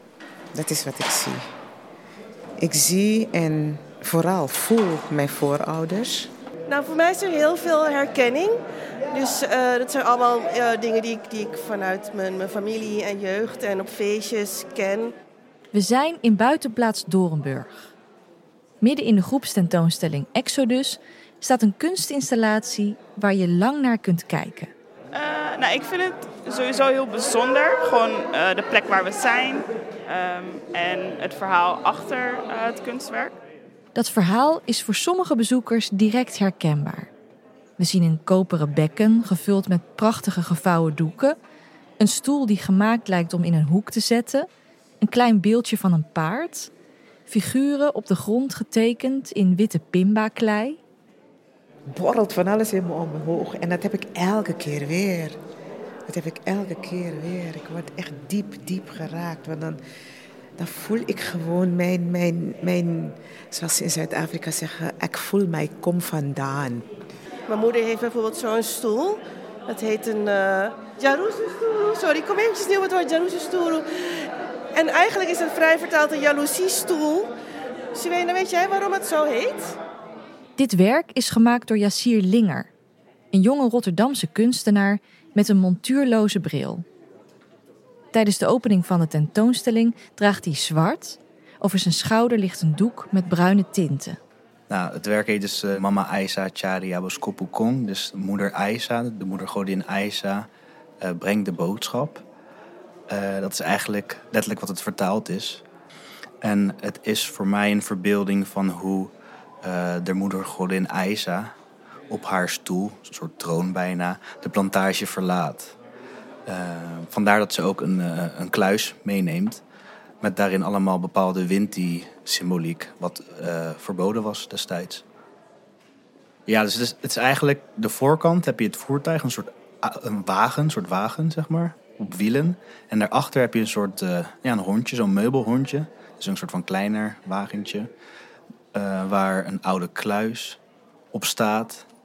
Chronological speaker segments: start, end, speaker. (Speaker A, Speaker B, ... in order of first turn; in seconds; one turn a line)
Speaker A: 0.5-1.5
Speaker A: 2.6-6.3
Speaker B: 6.7-8.6
Speaker B: 9.1-15.1
Speaker C: 15.7-17.9
Speaker C: 18.8-24.7
Speaker D: 25.1-33.4
Speaker C: 33.9-37.1
Speaker C: 37.8-41.4
Speaker C: 42.0-44.5
Speaker C: 45.0-46.7
Speaker C: 47.3-50.8
Speaker A: 51.9-55.4
Speaker A: 56.1-59.8
Speaker A: 60.6-66.8
Speaker B: 67.5-77.3
Speaker B: 77.9-79.8
Speaker C: 80.6-82.7
Speaker C: 83.3-86.8
Speaker C: 88.1-94.2
Speaker E: 94.7-100.5
Speaker E: 101.0-102.2
Speaker E: 103.1-105.6
Speaker E: 106.4-111.5
Speaker E: 112.1-115.8
Speaker E: 116.5-119.6
Speaker E: 120.2-125.0
Speaker E: 126.5-137.9
Speaker E: 138.7-140.6
Speaker E: 141.1-141.9